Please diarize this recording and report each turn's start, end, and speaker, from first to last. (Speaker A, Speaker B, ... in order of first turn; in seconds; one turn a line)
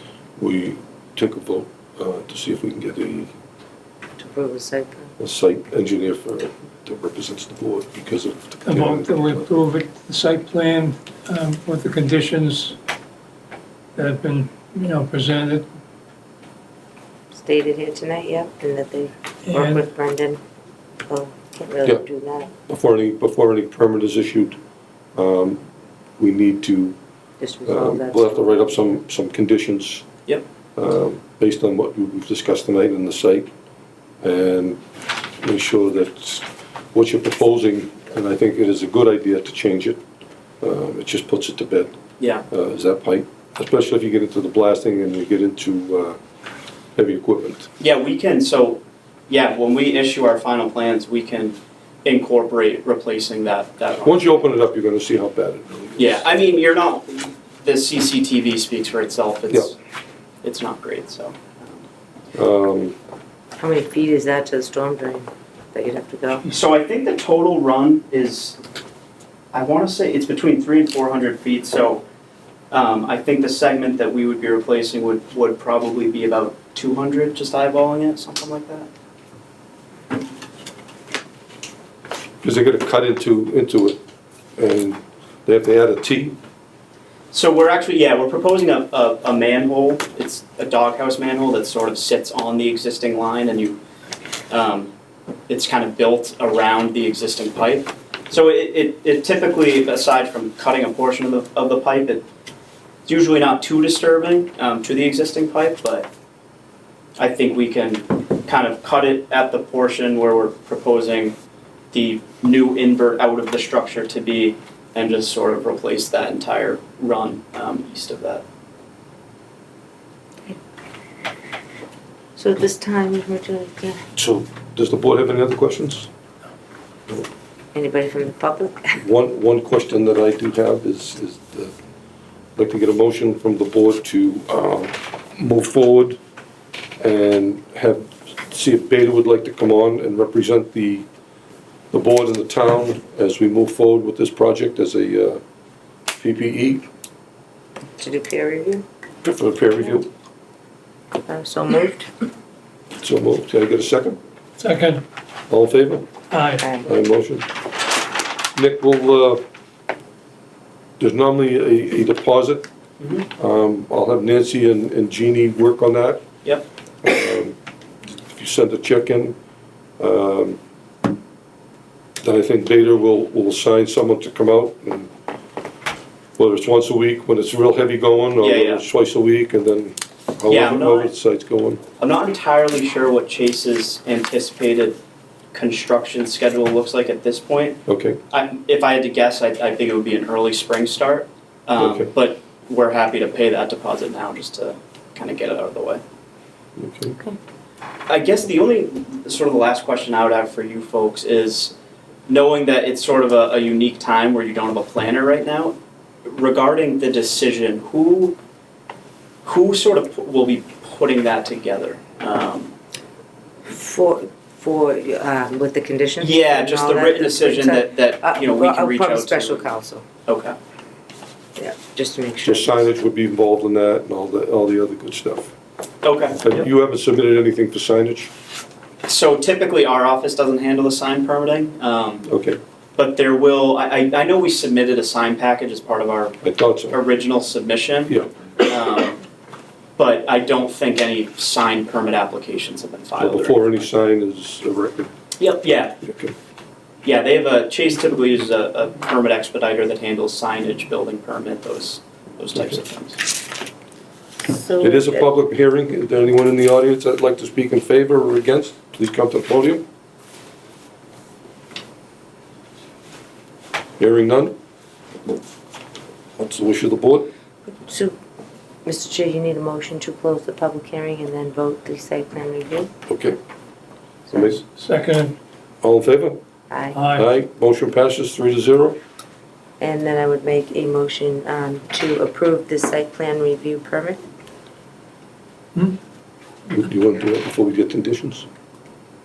Speaker A: 0.4-3.3
Speaker B: 4.2-5.1
Speaker A: 5.2-9.5
Speaker C: 8.7-12.8
Speaker C: 14.0-15.7
Speaker B: 17.3-20.4
Speaker C: 19.5-19.9
Speaker B: 21.1-22.5
Speaker A: 22.7-24.6
Speaker A: 25.1-25.6
Speaker A: 26.2-27.0
Speaker B: 27.4-28.8
Speaker A: 27.7-30.1
Speaker A: 30.8-33.5
Speaker A: 34.2-34.8
Speaker A: 35.4-40.0
Speaker A: 40.6-41.9
Speaker D: 42.2-42.5
Speaker A: 42.5-46.2
Speaker A: 47.0-47.7
Speaker D: 47.8-54.5
Speaker A: 54.0-56.3
Speaker D: 56.0-59.8
Speaker D: 60.4-61.9
Speaker A: 62.4-63.0
Speaker B: 63.6-66.5
Speaker D: 66.5-68.6
Speaker D: 69.5-72.0
Speaker D: 72.7-78.9
Speaker A: 82.4-84.0
Speaker A: 84.6-86.4
Speaker D: 87.3-93.8
Speaker D: 94.5-94.9
Speaker D: 95.5-102.2
Speaker D: 103.1-106.1
Speaker D: 107.2-111.4
Speaker D: 111.9-118.4
Speaker B: 122.4-124.0
Speaker A: 124.2-126.1
Speaker B: 127.7-129.0
Speaker A: 129.0-131.7
Speaker A: 132.6-136.2
Speaker A: 137.0-141.1
Speaker A: 141.9-145.4
Speaker A: 146.2-146.8
Speaker B: 148.0-148.8
Speaker A: 149.2-150.1
Speaker B: 151.3-152.1
Speaker A: 153.0-154.2
Speaker C: 154.6-155.0
Speaker A: 155.5-156.1
Speaker C: 156.3-156.7
Speaker B: 156.6-156.9
Speaker A: 156.8-157.5
Speaker A: 158.6-159.4
Speaker A: 161.0-162.7
Speaker D: 163.0-163.3
Speaker A: 163.4-166.2
Speaker A: 167.0-167.6
Speaker A: 168.3-169.4
Speaker A: 170.0-170.6
Speaker A: 172.2-175.1
Speaker A: 176.4-181.8
Speaker D: 178.4-178.8
Speaker D: 180.5-181.1
Speaker D: 182.0-185.0
Speaker D: 185.5-196.0
Speaker A: 187.9-188.2
Speaker A: 191.8-192.1
Speaker A: 196.8-197.2
Speaker D: 198.1-201.7
Speaker D: 202.3-208.4
Speaker D: 209.4-212.7
Speaker B: 213.7-220.1
Speaker D: 216.2-219.7
Speaker D: 220.3-220.6
Speaker B: 221.6-222.9
Speaker A: 222.4-225.5
Speaker D: 226.0-226.7
Speaker A: 226.4-228.3
Speaker D: 229.1-232.3
Speaker A: 232.3-232.6
Speaker D: 233.0-239.2
Speaker A: 236.4-237.0
Speaker D: 240.0-243.9
Speaker A: 243.2-245.1
Speaker D: 245.4-246.0
Speaker A: 246.0-246.3
Speaker D: 247.1-253.3
Speaker B: 254.5-255.3
Speaker A: 254.8-259.9
Speaker A: 264.0-264.6
Speaker A: 266.4-267.3
Speaker B: 267.7-268.1
Speaker B: 268.9-272.9
Speaker A: 273.1-273.4
Speaker B: 274.3-274.5
Speaker A: 274.3-274.6
Speaker C: 274.8-275.4
Speaker A: 275.8-276.4
Speaker B: 276.7-277.0
Speaker C: 276.9-277.3
Speaker A: 277.1-279.0
Speaker B: 279.8-284.2
Speaker A: 286.7-288.5